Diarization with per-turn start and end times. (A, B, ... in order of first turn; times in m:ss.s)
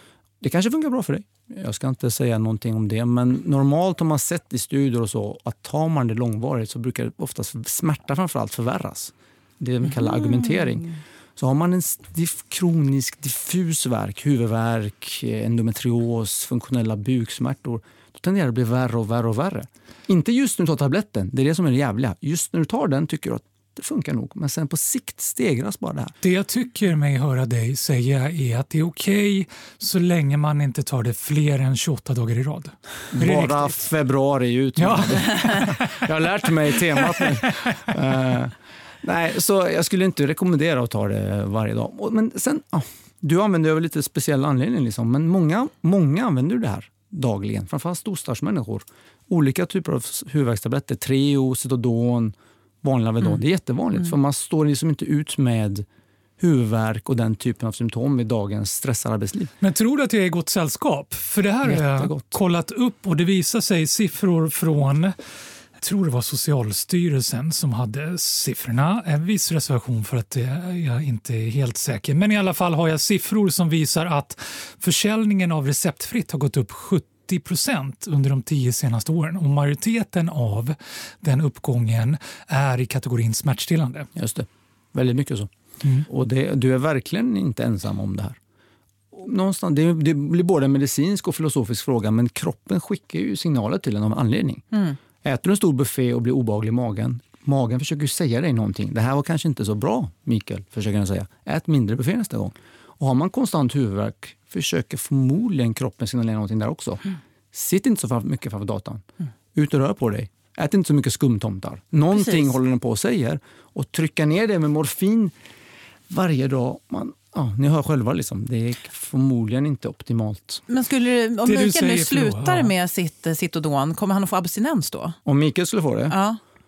0:00.4-0:26.2 A
0:26.2-0:33.8 B
0:33.1-0:55.8 A
0:34.8-0:36.1 B
0:36.7-0:37.5 B
0:56.4-0:59.5 A
0:59.6-1:05.1 B
1:01.6-1:02.4 A
1:05.8-1:24.1 B
1:24.2-1:25.5 A
1:26.0-1:28.4 A
1:29.1-1:34.6 A
1:35.2-1:49.0 A
1:49.6-1:55.3 A
1:52.1-1:52.5 C
1:56.1-2:00.6 A
2:00.7-2:05.2 C
2:01.4-2:02.7 B
2:05.2-2:06.2 A
2:06.1-2:06.4 C